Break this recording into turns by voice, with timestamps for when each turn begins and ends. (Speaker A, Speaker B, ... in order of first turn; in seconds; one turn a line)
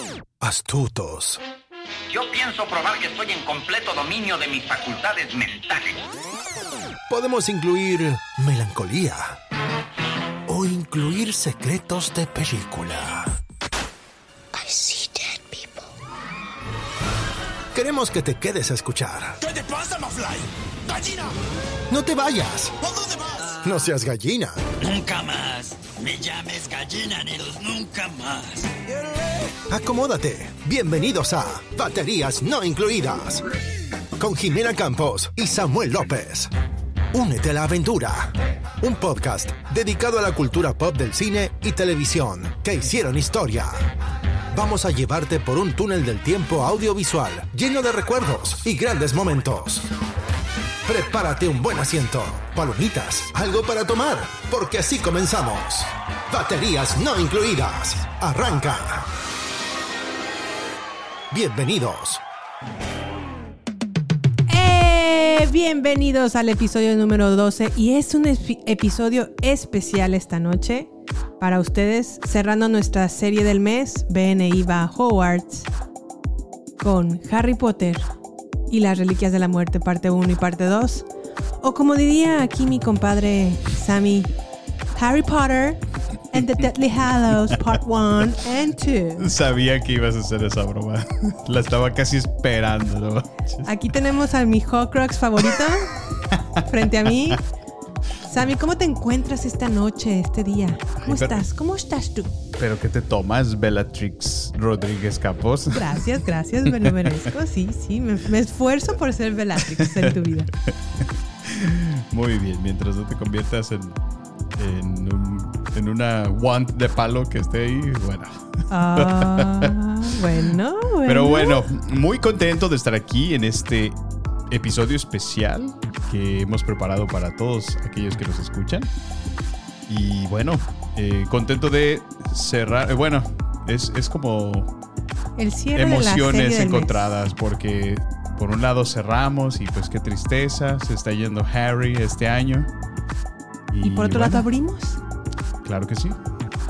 Speaker A: 0.4-1.4
Speaker B: 2.1-6.0
Speaker A: 7.1-9.4
Speaker A: 10.5-13.3
Speaker A: 14.6-15.6
Speaker A: 17.7-19.5
Speaker C: 19.7-20.2
Speaker A: 20.9-21.3
Speaker A: 21.9-24.6
Speaker C: 24.8-28.7
Speaker A: 29.7-33.5
Speaker A: 34.2-36.5
Speaker A: 37.1-43.9
Speaker A: 44.5-49.9
Speaker A: 50.9-59.1
Speaker A: 61.3-62.2
Speaker D: 64.5-70.9
Speaker D: 71.4-75.7
Speaker D: 76.8-78.1
Speaker D: 78.7-81.0
Speaker D: 81.6-84.3
Speaker D: 84.9-89.3
Speaker E: 89.2-93.8
Speaker D: 93.6-96.0
Speaker E: 96.3-97.3
Speaker D: 96.6-97.4
Speaker D: 98.2-102.3
Speaker E: 101.0-101.5
Speaker E: 102.6-106.0
Speaker D: 105.7-110.5
Speaker E: 106.7-107.2
Speaker E: 109.7-114.0
Speaker E: 114.5-120.4
Speaker D: 118.7-121.6
Speaker E: 121.0-128.9
Speaker E: 129.8-134.7
Speaker D: 135.4-137.1
Speaker E: 135.7-142.7
Speaker E: 143.7-144.4
Speaker D: 143.8-145.0
Speaker E: 145.6-146.2